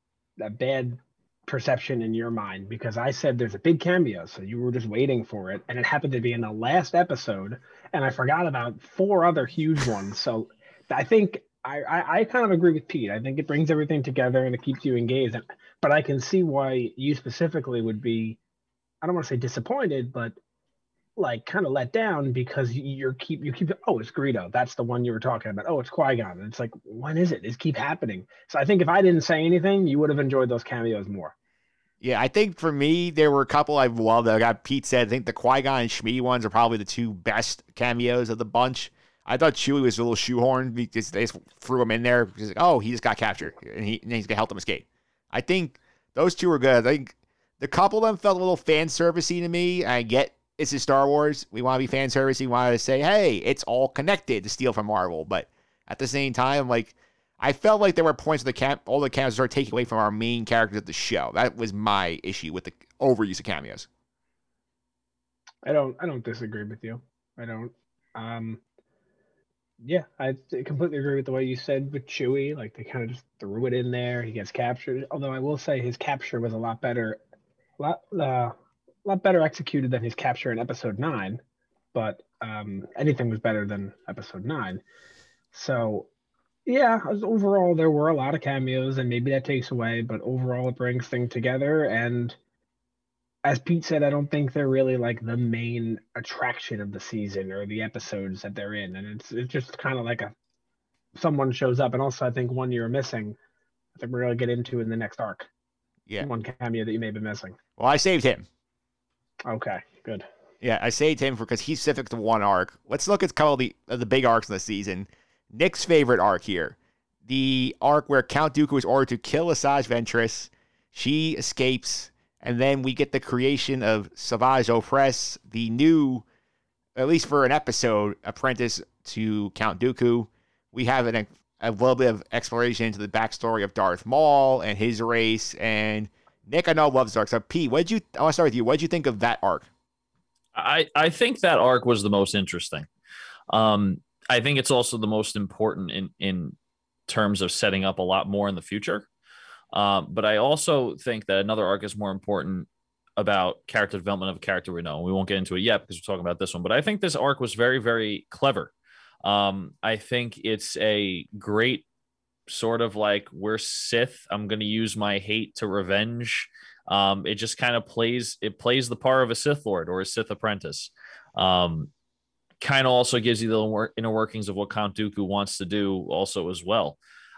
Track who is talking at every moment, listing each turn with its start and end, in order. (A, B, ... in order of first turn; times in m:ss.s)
0:00.4-0:18.4 A
0:19.0-0:20.4 A
0:21.2-0:31.3 A
0:32.0-1:03.9 B
1:05.6-1:08.6 A
1:09.8-1:17.2 A
1:17.8-1:21.4 A
1:21.9-1:24.8 A
1:25.5-1:26.1 A
1:26.6-1:32.4 A
1:33.4-1:40.3 A
1:41.1-1:43.4 A
1:43.9-1:45.5 A
1:46.2-1:47.6 A
1:47.8-1:48.5 B
1:49.4-1:50.3 A
1:50.6-1:56.8 B
1:57.3-2:06.2 B
2:07.0-2:19.7 B
2:20.5-2:22.9 C
2:23.5-2:26.6 C
2:27.1-2:29.1 C
2:29.7-2:38.7 C
2:39.2-2:41.8 C
2:42.5-2:51.9 C
2:52.6-2:57.0 C